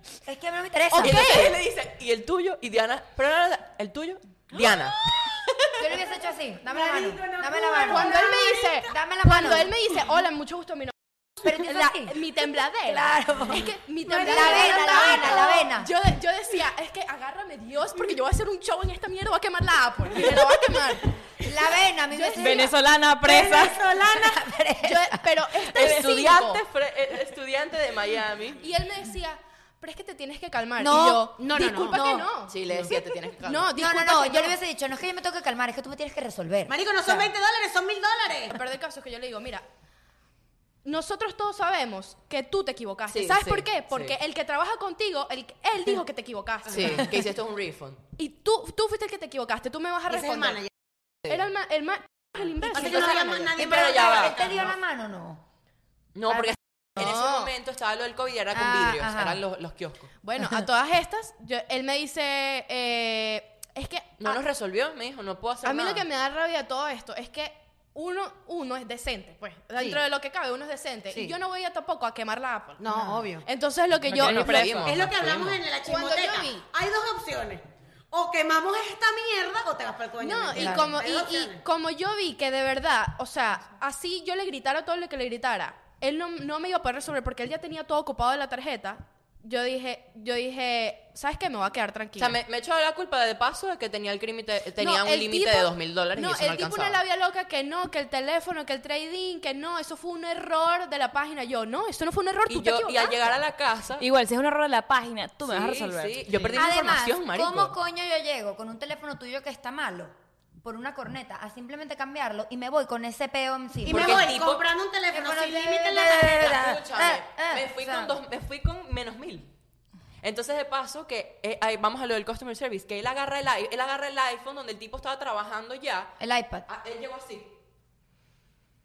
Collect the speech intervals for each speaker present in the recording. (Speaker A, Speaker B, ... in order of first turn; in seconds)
Speaker A: 0.2-1.4, 5.8-9.9, 11.4-12.2, 12.8-15.9, 21.4-22.7, 23.9-25.2, 30.8-31.3, 31.9-32.2, 33.7-37.3, 52.7-55.4, 58.5-59.4, 80.5-81.0, 106.5-114.3, 115.1-118.1, 126.2-126.7
Speaker B: 0.9-1.6, 7.8-21.3, 22.1-22.7, 24.8-26.6, 28.6-34.6, 38.5-39.6, 40.8-47.1, 48.1-50.6, 51.3-53.6, 57.0-57.5, 60.2-64.4, 65.6-74.9, 75.8-76.6, 80.2-92.3, 94.8-103.4
Speaker C: 1.0-5.5, 25.7-28.6, 32.5-33.7, 43.1-44.2, 46.6-48.0, 53.6-54.6, 56.1-60.1, 64.2-66.1, 74.1-75.6, 92.2-97.0, 102.5-104.0, 105.4-107.7, 113.8-114.7, 116.4-119.5, 120.2-127.5
Speaker D: 5.9-8.8, 14.1-15.4, 23.2-24.4, 31.4-32.9, 36.7-38.5, 50.1-50.7, 52.6-54.8, 69.8-70.0, 71.1-71.4, 72.8-73.5, 74.8-81.6, 113.8-116.6
Speaker E: 22.4-23.9, 74.0-75.0, 104.0-106.4